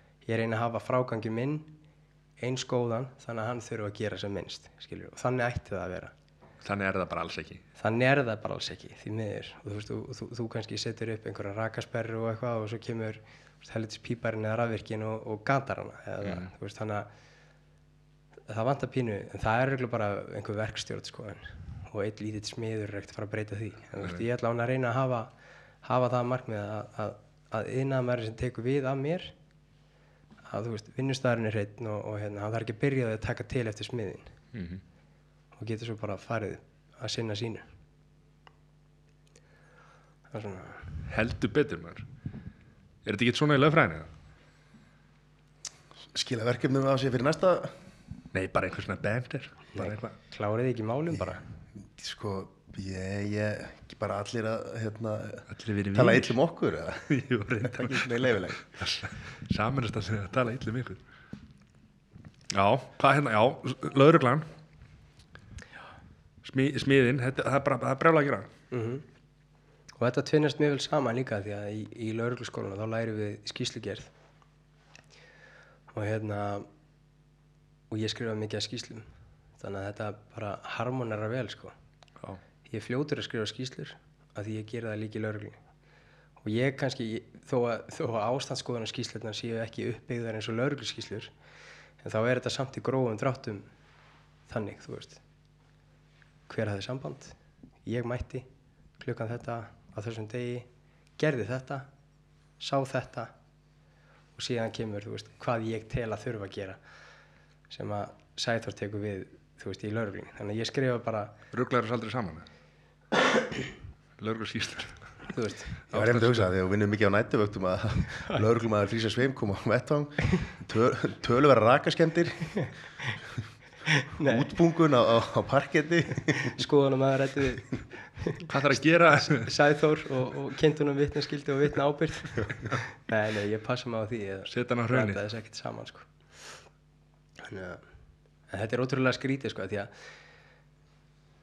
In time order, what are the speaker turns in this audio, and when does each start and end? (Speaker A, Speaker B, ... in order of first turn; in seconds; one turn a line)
Speaker A: 0.2-1.7
Speaker A: 2.4-6.1
Speaker B: 6.6-7.6
Speaker A: 7.8-17.1
Speaker A: 18.5-29.3
Speaker A: 30.5-34.3
Speaker B: 34.5-34.8
Speaker A: 35.5-37.7
Speaker A: 40.3-40.9
Speaker B: 41.1-42.0
Speaker B: 43.0-44.1
Speaker C: 46.1-47.7
Speaker B: 48.3-50.1
Speaker A: 49.7-51.4
Speaker C: 51.8-58.6
Speaker B: 55.5-56.4
Speaker B: 57.1-61.0
Speaker B: 62.5-64.5
Speaker B: 66.4-68.5
Speaker A: 68.7-69.0
Speaker A: 70.0-74.1
Speaker A: 75.9-76.7
Speaker A: 77.9-79.0
Speaker A: 79.6-81.7
Speaker A: 82.7-85.6
Speaker A: 86.4-91.3
Speaker A: 92.0-93.7
Speaker A: 94.5-95.2
Speaker A: 96.5-98.5
Speaker A: 99.0-100.7
Speaker A: 101.2-101.9
Speaker A: 102.6-103.3
Speaker A: 104.3-106.8
Speaker A: 107.7-111.3
Speaker B: 111.5-112.5
Speaker B: 114.2-115.1
Speaker A: 115.2-115.7
Speaker B: 115.9-116.5
Speaker C: 115.9-122.7
Speaker A: 122.5-123.1
Speaker A: 123.9-124.5
Speaker C: 124.2-126.6
Speaker A: 126.3-128.5
Speaker B: 128.5-129.5
Speaker A: 129.3-136.1
Speaker B: 134.5-135.2
Speaker A: 137.4-137.8
Speaker A: 138.5-139.9